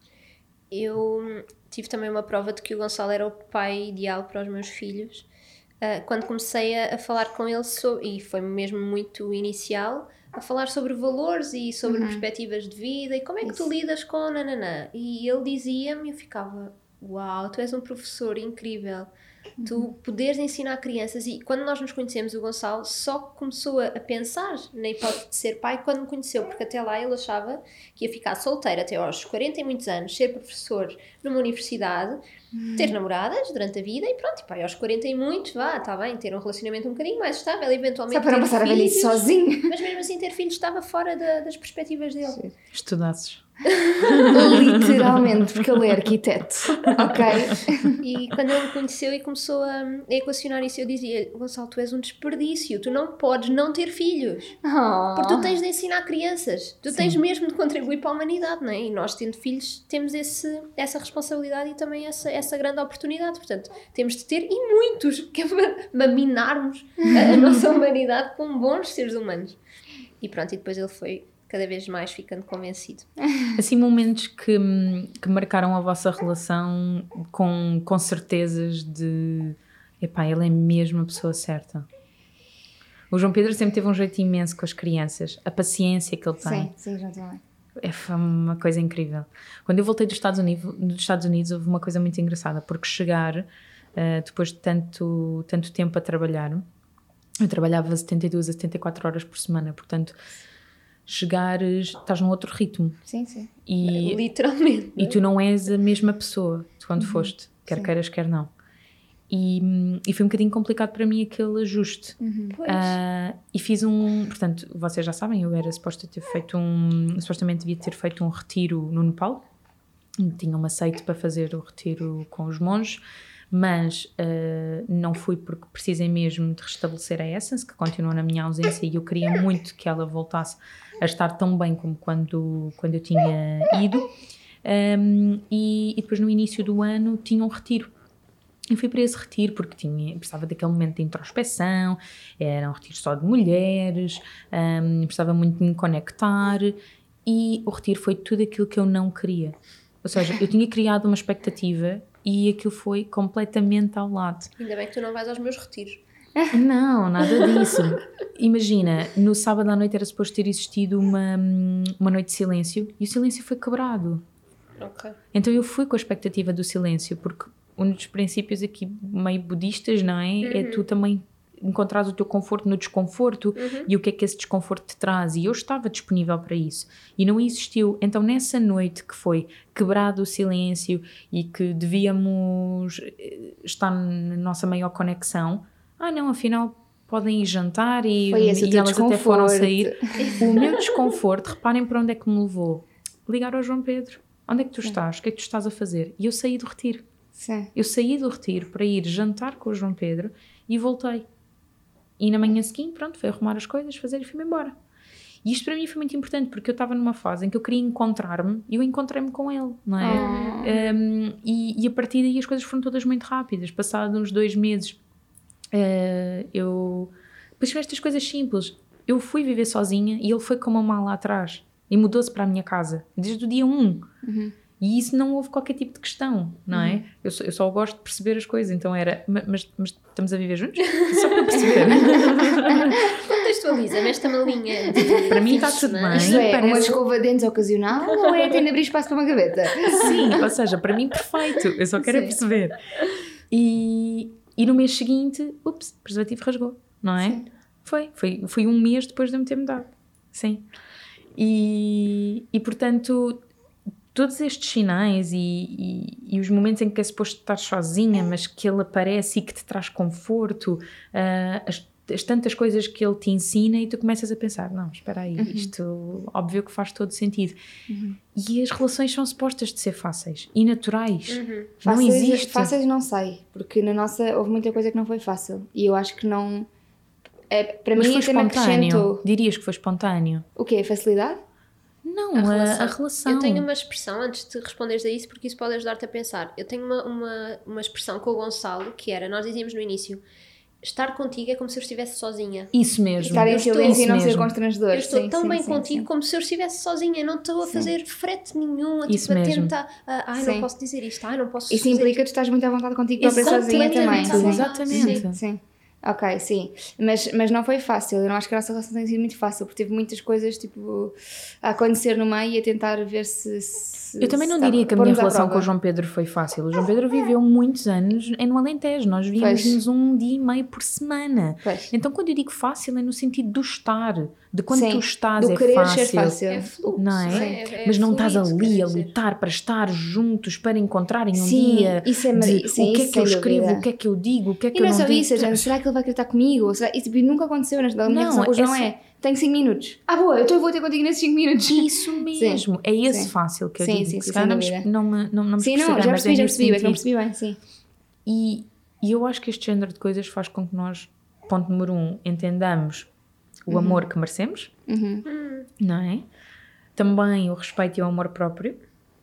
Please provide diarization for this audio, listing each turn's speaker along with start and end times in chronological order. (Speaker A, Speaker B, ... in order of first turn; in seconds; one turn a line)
Speaker A: 0.7-5.3
Speaker A: 5.8-19.1
Speaker B: 11.9-12.2
Speaker B: 19.6-19.9
Speaker A: 19.6-32.2
Speaker B: 32.5-33.0
Speaker A: 32.8-42.4
Speaker B: 38.1-39.7
Speaker C: 42.7-43.4
Speaker A: 43.7-44.6
Speaker C: 44.0-46.0
Speaker B: 44.3-48.0
Speaker C: 46.8-47.4
Speaker A: 48.0-54.6
Speaker B: 54.6-55.6
Speaker A: 55.1-69.6
Speaker C: 56.9-57.2
Speaker A: 70.2-73.1
Speaker C: 73.6-81.9
Speaker C: 83.1-86.7
Speaker B: 86.4-87.4
Speaker C: 87.8-96.6
Speaker C: 97.4-100.2
Speaker C: 101.1-103.0
Speaker B: 103.1-103.5
Speaker C: 103.7-104.2
Speaker A: 103.8-105.2
Speaker C: 105.0-108.5
Speaker B: 107.0-107.9
Speaker C: 109.3-119.4
Speaker B: 112.2-112.6
Speaker A: 112.5-113.0
Speaker C: 120.2-134.1
Speaker C: 134.6-137.9
Speaker C: 138.7-154.5
Speaker A: 154.6-156.0
Speaker C: 156.5-164.2
Speaker A: 157.2-157.8
Speaker A: 164.8-165.2
Speaker C: 165.3-197.1
Speaker A: 170.4-170.9
Speaker A: 173.6-173.9
Speaker B: 188.3-190.1
Speaker A: 190.2-190.9
Speaker B: 197.3-197.7
Speaker C: 197.8-201.3
Speaker C: 202.2-204.8
Speaker C: 205.4-215.0
Speaker B: 210.0-210.7
Speaker A: 210.1-211.0
Speaker C: 215.7-224.1
Speaker B: 224.2-224.6
Speaker C: 224.8-233.1
Speaker B: 226.7-227.0
Speaker A: 230.9-231.6
Speaker B: 231.6-232.9
Speaker A: 232.9-236.5
Speaker B: 235.0-240.4
Speaker C: 235.3-237.0
Speaker A: 238.0-238.6
Speaker C: 239.9-242.8
Speaker B: 242.0-242.4
Speaker C: 243.5-250.7
Speaker C: 251.3-253.4
Speaker C: 254.1-267.6
Speaker B: 265.4-265.7
Speaker B: 267.9-268.2
Speaker C: 268.4-272.7
Speaker A: 271.3-271.7
Speaker B: 271.8-276.7
Speaker B: 277.5-279.2
Speaker C: 277.9-280.4
Speaker B: 280.6-281.4
Speaker C: 282.0-283.7
Speaker A: 282.4-290.2
Speaker A: 290.8-294.0
Speaker C: 292.7-294.5
Speaker B: 293.3-296.1
Speaker A: 294.9-302.2
Speaker C: 299.1-299.7
Speaker B: 300.4-300.7
Speaker B: 301.7-315.7
Speaker A: 303.2-305.2
Speaker C: 303.2-305.4
Speaker C: 314.2-326.4
Speaker B: 319.4-319.8
Speaker B: 321.6-321.9
Speaker B: 324.7-326.7
Speaker A: 326.5-329.1
Speaker C: 327.0-335.8
Speaker B: 327.2-327.6
Speaker B: 331.3-333.9
Speaker B: 334.7-344.9
Speaker C: 338.1-338.9
Speaker C: 341.7-347.0
Speaker B: 345.6-347.6
Speaker C: 348.3-353.1
Speaker C: 353.6-354.7
Speaker B: 353.7-354.1
Speaker B: 354.9-355.3
Speaker A: 355.3-355.7
Speaker C: 355.8-356.2
Speaker C: 356.9-358.8